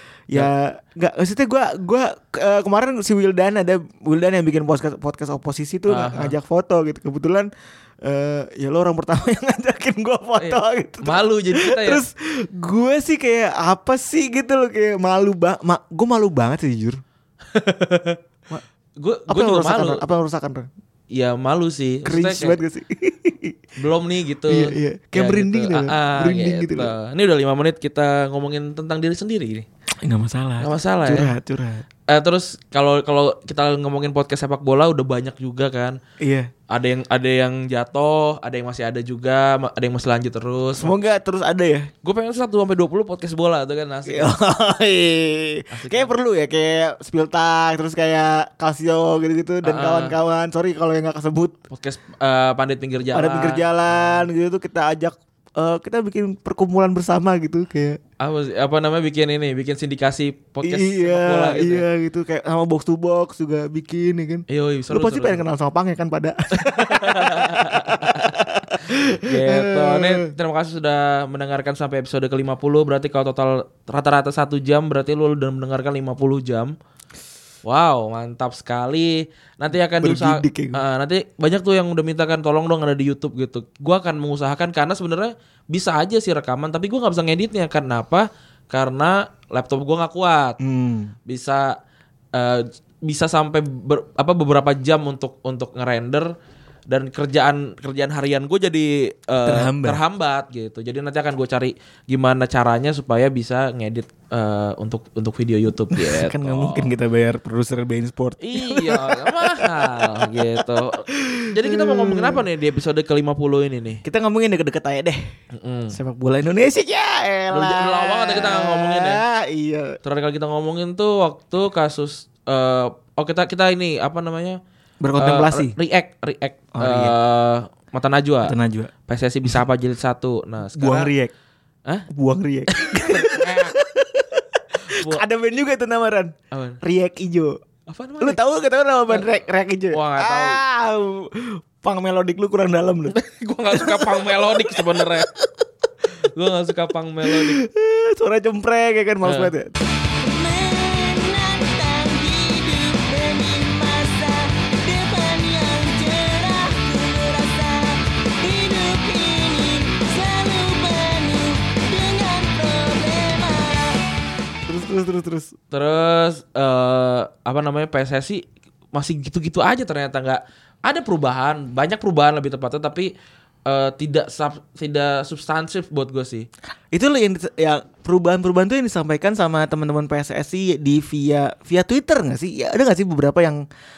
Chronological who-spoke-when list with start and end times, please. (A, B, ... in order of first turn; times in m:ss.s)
0:00.3-0:07.5 A
0:05.9-0:06.4 B
0:08.0-0:17.0 A
0:10.4-0:12.0 B
0:17.5-0:18.2 B
0:19.0-0:20.0 B
0:19.3-0:20.7 A
0:21.1-0:22.6 B
0:22.0-0:23.6 A
0:23.8-0:29.7 B
0:24.5-0:26.9 A
0:30.0-0:31.8 A
0:30.6-0:31.3 B
0:32.1-0:36.0 B
0:36.2-0:36.5 A
0:36.7-0:40.9 B
0:40.7-0:41.9 A
0:42.0-0:44.3 B
0:44.1-0:51.6 A
0:45.7-0:46.1 B
0:49.6-0:50.2 B
0:51.7-0:54.2 B
0:53.1-0:58.0 A
0:58.2-1:01.8 B
1:00.6-1:10.3 A
1:04.5-1:05.4 B
1:06.6-1:16.7 B
1:17.6-1:30.6 B
1:19.9-1:20.8 A
1:30.6-1:31.1 A
1:31.2-1:31.8 B
1:32.3-1:36.3 B
1:36.9-1:46.9 B
1:39.4-1:40.0 A
1:45.9-1:52.4 A
1:48.4-1:54.0 B
1:54.0-1:55.2 A
1:55.5-1:56.0 B
1:55.9-2:00.0 A
1:57.5-1:59.2 B
2:00.0-2:04.6 B
2:05.0-2:05.7 A
2:05.2-2:08.6 B
2:06.7-2:07.1 A
2:08.4-2:08.9 A
2:09.1-2:11.1 B
2:10.7-2:11.3 A
2:12.1-2:17.6 A
2:12.7-2:13.8 B
2:14.8-2:15.2 B
2:16.5-2:16.8 B
2:17.9-2:18.4 B
2:18.2-2:23.1 A
2:19.9-2:20.6 B
2:23.1-2:25.3 B
2:23.7-2:25.2 A
2:26.1-2:27.6 B
2:27.2-2:29.7 A
2:29.2-2:29.5 B
2:30.2-2:44.0 C
2:44.6-2:45.5 A
2:45.7-2:53.1 B
2:53.6-2:56.5 B
2:56.9-3:03.6 A